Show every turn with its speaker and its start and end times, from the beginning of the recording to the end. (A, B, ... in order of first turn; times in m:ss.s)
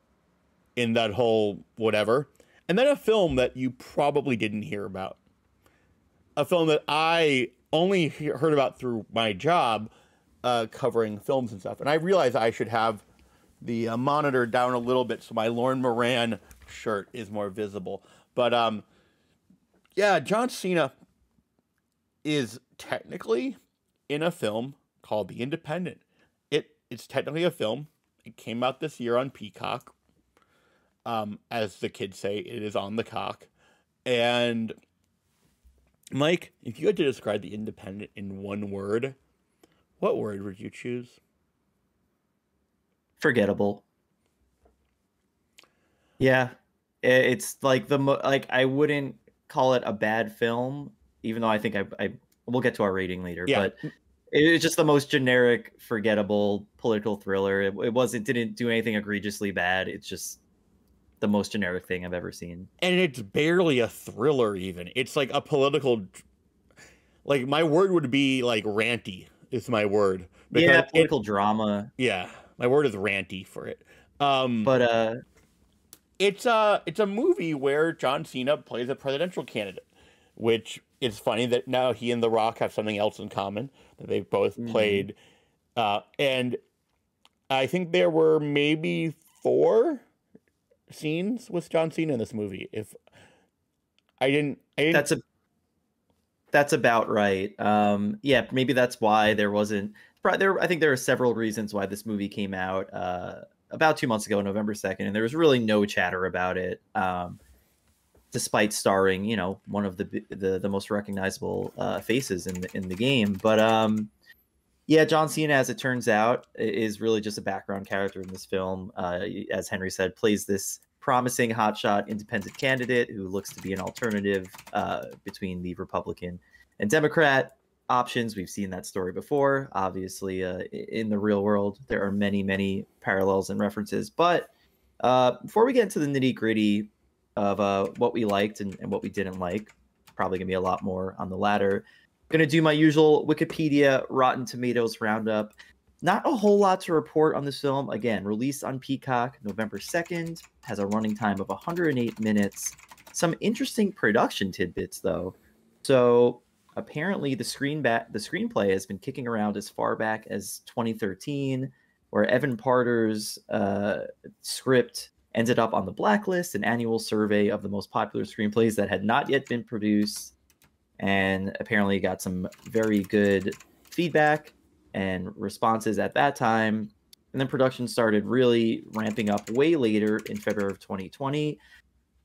0:00.8-0:05.2 A
0:06.4-0:09.9 A
0:10.4-0:13.0 A
0:13.6-0:18.8 A
0:20.0-0:20.9 A
0:22.2-0:23.6 A
0:24.1-0:29.9 A
0:31.1-0:33.5 A
0:34.1-0:34.8 A
0:36.1-0:39.2 A
0:40.0-0:41.2 A
0:43.2-0:43.8 B
0:46.2-0:53.8 B
0:53.5-0:53.7 A
0:54.3-1:00.4 B
1:01.2-1:02.7 B
1:02.8-1:06.2 A
1:07.2-1:11.1 A
1:10.5-1:11.9 B
1:12.0-1:14.7 A
1:14.6-1:15.2 B
1:16.2-1:19.9 A
1:20.4-1:25.2 A
1:24.6-1:25.1 B
1:25.8-1:26.6 A
1:27.5-1:30.0 A
1:30.9-1:33.0 A
1:34.2-1:35.1 A
1:34.9-1:35.2 B
1:36.5-1:47.4 B
1:48.3-1:54.1 B
1:54.9-2:50.3 B
2:51.0-3:01.6 B